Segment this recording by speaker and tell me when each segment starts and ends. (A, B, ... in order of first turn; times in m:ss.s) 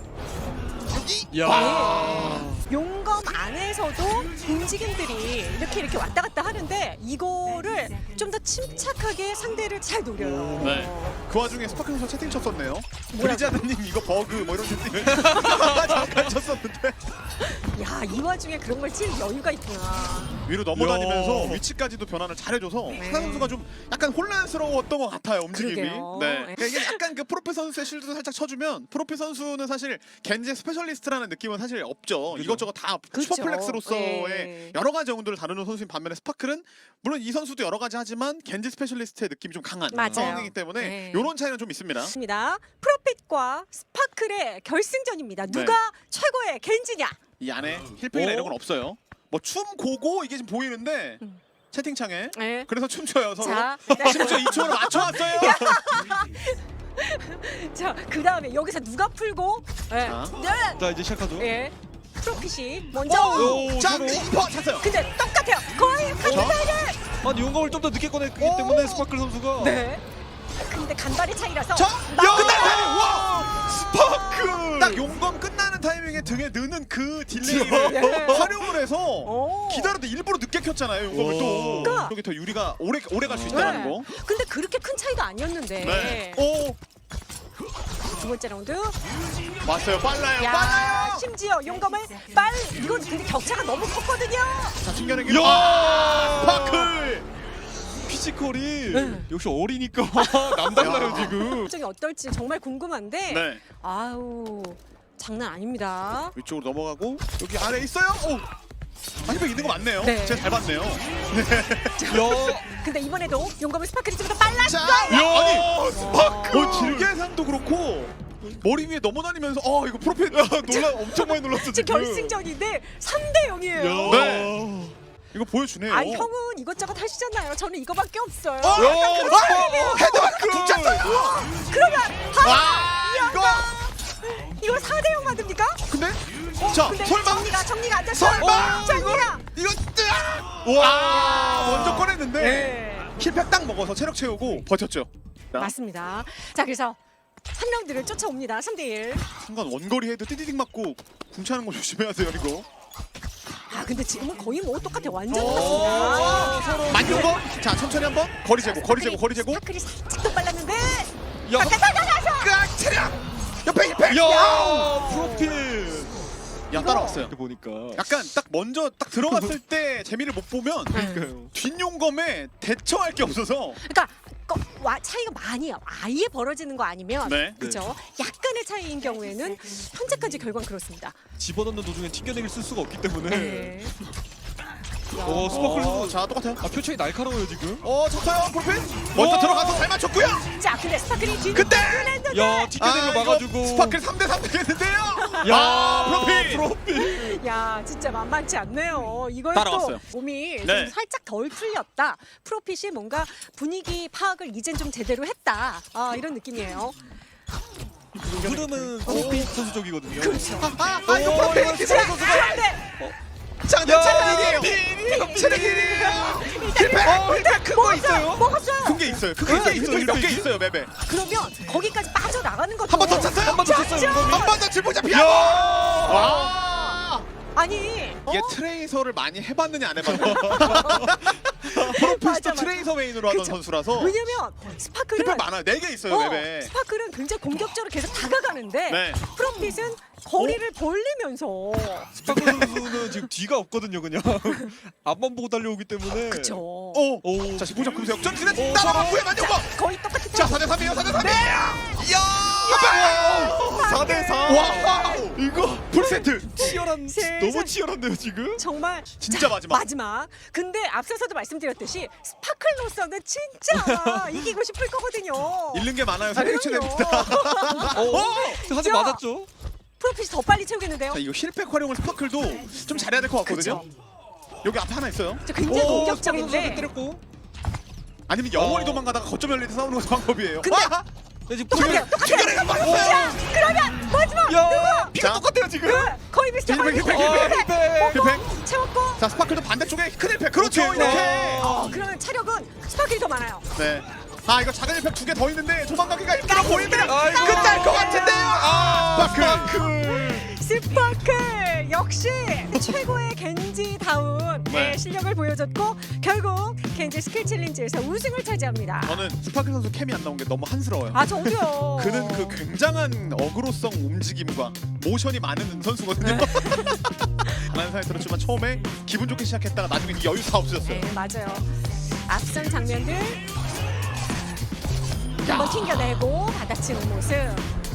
0:00.9-0:02.3 A
0:01.3-0:02.6 B
0:01.5-0:11.2 C
0:10.2-0:10.9 B
0:10.6-0:17.0 A
0:13.1-0:13.6 C
0:15.0-0:16.2 B
0:17.4-0:20.4 C
0:20.4-0:42.1 A
0:20.7-0:21.6 B
0:22.9-0:23.5 C
0:25.5-0:27.0 C
0:32.3-0:32.7 B
0:33.1-0:34.8 C
0:39.9-0:41.3 C
0:40.0-0:40.5 B
0:42.1-0:47.2 C
0:45.4-0:45.8 A
0:47.4-0:55.8 A
0:48.1-0:48.6 B
0:52.3-0:52.7 C
0:53.4-1:00.8 C
0:54.1-0:54.5 B
1:00.0-1:00.4 A
1:00.8-1:01.5 B
1:01.4-1:03.7 C
1:03.0-1:04.9 A
1:03.3-1:04.3 B
1:04.8-1:07.0 C
1:06.2-1:09.8 B
1:06.2-1:06.8 A
1:08.4-1:09.1 A
1:09.6-1:10.0 C
1:10.6-1:13.1 C
1:11.7-1:13.7 A
1:12.2-1:15.0 B
1:14.5-1:24.1 A
1:17.4-1:18.7 B
1:17.9-1:18.5 C
1:19.2-1:20.0 C
1:21.1-1:22.1 B
1:21.8-1:22.1 C
1:23.2-1:23.9 B
1:23.5-1:26.4 C
1:25.8-1:26.8 A
1:28.0-1:29.0 C
1:29.6-1:31.2 A
1:30.4-1:34.8 C
1:34.8-1:37.3 A
1:35.2-1:37.0 B
1:38.0-1:41.7 B
1:38.9-1:39.3 C
1:40.2-1:46.4 C
1:40.8-1:41.4 A
1:43.3-1:43.6 A
1:46.4-1:48.5 A
1:49.2-1:52.2 A
1:50.0-1:50.5 C
1:52.0-1:55.3 C
1:52.1-1:52.6 B
1:54.5-1:55.8 A
1:55.1-1:57.1 B
1:55.9-1:56.5 C
1:56.4-2:00.9 A
2:00.3-2:02.4 B
2:00.7-2:04.4 C
2:03.7-2:05.0 B
2:04.0-2:04.6 A
2:05.3-2:06.3 A
2:05.9-2:15.8 C
2:08.6-2:11.6 A
2:08.7-2:11.4 B
2:12.4-2:13.8 A
2:15.9-2:25.7 A
2:16.6-2:19.5 C
2:20.6-2:22.0 B
2:20.8-2:23.1 C
2:25.6-2:27.0 C
2:27.5-2:29.2 C
2:29.4-2:32.6 A
2:33.7-2:37.4 C
2:35.3-2:39.6 A
2:35.3-2:37.4 B
2:38.6-2:42.6 C
2:41.4-2:41.8 B
2:42.4-2:44.8 A
2:44.1-2:46.1 B
2:44.2-2:45.6 C
2:46.7-2:47.3 A
2:46.7-2:47.2 C
2:47.1-2:48.0 B
2:47.9-2:51.0 A
2:49.2-2:49.6 B
2:50.9-2:51.5 B
2:50.9-2:51.2 C
2:51.5-2:53.8 A
2:53.8-3:01.2 C
2:57.2-2:57.6 A
3:01.4-3:03.8 B
3:03.3-3:03.9 C
3:05.1-3:05.6 C
3:05.2-3:07.8 B
3:05.4-3:06.6 A
3:07.8-3:10.4 A
3:09.1-3:09.9 B
3:10.5-3:12.7 C
3:11.5-3:12.2 A
3:12.3-3:14.0 B
3:12.8-3:16.7 A
3:15.2-3:15.5 C
3:15.4-3:17.4 B
3:16.9-3:27.0 C
3:19.5-3:20.0 A
3:20.6-3:20.9 A
3:28.2-3:33.2 B
3:28.3-3:29.5 A
3:29.0-3:29.5 C
3:30.2-3:30.9 C
3:30.6-3:32.6 A
3:31.6-3:32.9 C
3:33.6-3:37.3 A
3:33.8-3:36.4 B
3:34.0-3:39.6 C
3:37.0-3:38.5 B
3:38.8-3:40.9 A
3:39.4-3:40.5 B
3:41.0-3:44.6 C
3:42.9-3:47.3 A
3:43.2-3:46.4 B
3:45.8-3:47.0 C
3:47.5-3:48.6 C
3:48.2-3:54.2 A
3:50.1-3:51.1 C
3:50.1-3:51.3 B
3:51.8-3:55.5 C
3:55.1-3:56.7 A
3:56.1-4:02.2 C
3:58.9-3:59.2 A
4:02.2-4:06.6 B
4:02.2-4:03.0 A
4:06.3-4:07.1 C
4:06.9-4:09.7 A
4:07.2-4:09.3 B
4:09.2-4:12.0 C
4:10.3-4:15.4 A
4:12.4-4:18.6 B
4:12.6-4:15.2 C
4:15.9-4:17.8 C
4:18.6-4:29.2 C
4:19.2-4:19.8 A
4:23.7-4:24.5 B
4:25.7-4:28.6 A
4:27.9-4:29.5 B
4:30.0-4:31.2 C
4:31.1-4:33.8 A
4:33.4-4:33.9 C
4:34.6-4:36.0 A
4:35.4-4:36.9 C
4:35.6-4:37.2 B
4:38.3-4:41.0 A
4:38.5-4:39.0 B
4:40.6-4:41.0 C
4:41.5-4:43.6 B
4:41.7-4:45.1 C
4:41.7-4:43.4 A
4:44.4-4:46.1 B
4:45.1-4:45.5 A
4:45.8-4:49.2 C
4:46.6-4:48.5 A
4:47.0-4:48.2 B
4:49.2-4:51.7 A
4:50.5-4:52.1 B
4:50.9-4:53.7 C
4:53.7-4:59.8 A
4:56.3-5:09.3 C
4:57.0-5:00.5 B
5:04.7-5:05.0 A
5:09.0-5:21.1 A
5:11.1-5:12.6 C
5:16.2-5:17.5 C
5:20.8-5:23.4 C
5:25.4-5:25.8 A
5:25.4-5:27.7 C